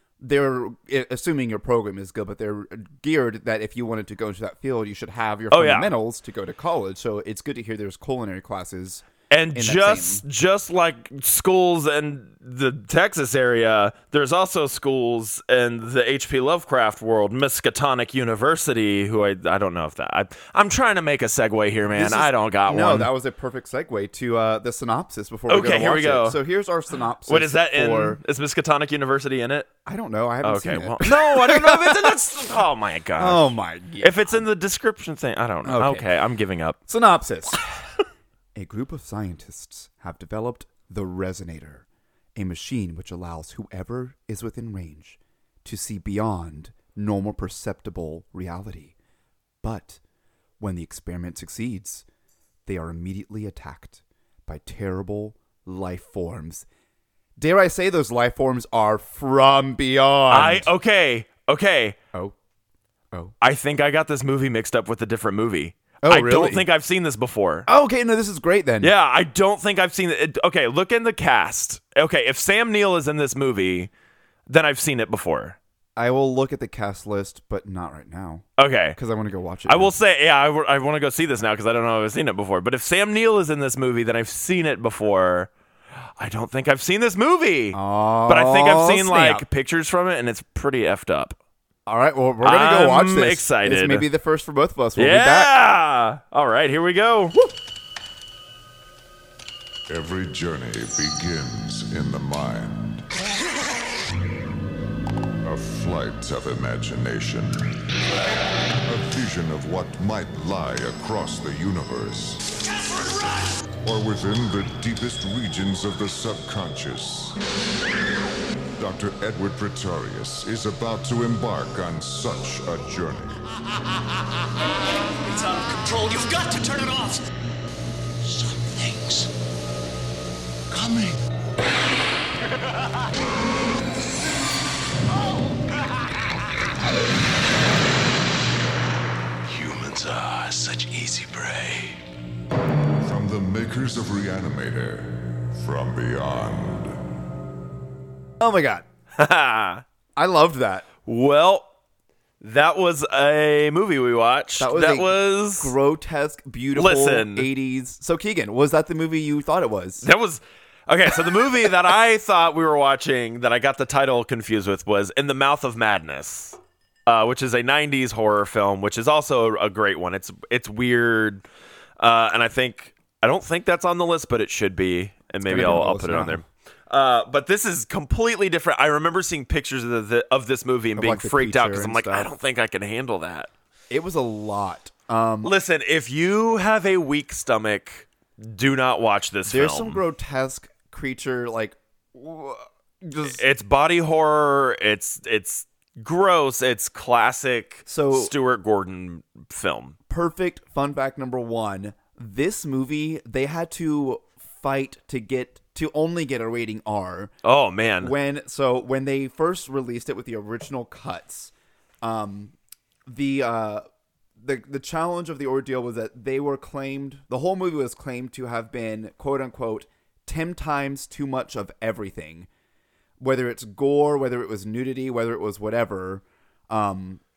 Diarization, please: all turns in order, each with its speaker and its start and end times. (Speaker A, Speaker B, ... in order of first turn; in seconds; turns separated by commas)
Speaker A: 0.2-10.2, Speaker B: 5.5-5.9, Speaker B: 9.3-23.1, Speaker A: 21.9-28.2, Speaker B: 25.5-26.4, Speaker B: 27.3-29.7, Speaker A: 29.9-32.2, Speaker B: 30.4-36.8, Speaker A: 33.2-34.4, Speaker A: 35.6-36.1, Speaker A: 36.9-37.7, Speaker A: 38.5-41.8, Speaker A: 42.4-48.9, Speaker A: 49.6-50.0, Speaker A: 50.6-52.0, Speaker A: 52.6-56.6, Speaker A: 57.4-60.7, Speaker B: 60.3-62.0, Speaker B: 63.4-67.7, Speaker A: 66.0-66.7, Speaker A: 67.7-68.9, Speaker B: 68.8-73.9, Speaker B: 74.5-75.6, Speaker A: 76.0-79.9, Speaker B: 78.6-79.0, Speaker B: 79.7-85.5, Speaker B: 86.2-91.4, Speaker A: 87.7-89.4, Speaker A: 91.8-95.5, Speaker B: 92.4-94.1, Speaker B: 95.0-97.5, Speaker C: 99.9-103.1, Speaker C: 105.4-107.7, Speaker C: 108.8-112.4, Speaker C: 113.8-117.4, Speaker C: 118.8-123.4, Speaker D: 125.1-127.2, Speaker D: 128.2-129.3, Speaker D: 130.7-131.2, Speaker D: 139.4-142.0, Speaker C: 143.0-147.0, Speaker A: 148.4-148.8, Speaker B: 149.2-149.8, Speaker A: 150.2-150.9, Speaker B: 151.0-151.7, Speaker B: 152.4-155.7, Speaker A: 154.6-160.0, Speaker B: 156.7-157.5, Speaker B: 160.0-171.4, Speaker B: 172.0-183.5, Speaker A: 175.4-176.4, Speaker A: 180.9-182.3, Speaker A: 183.9-185.5, Speaker B: 185.4-190.0, Speaker A: 189.4-193.4, Speaker B: 193.2-200.0, Speaker A: 197.9-198.3, Speaker A: 200.1-207.3, Speaker B: 207.4-208.1, Speaker A: 208.0-212.5, Speaker A: 213.1-213.8, Speaker A: 214.4-222.5, Speaker A: 223.2-227.2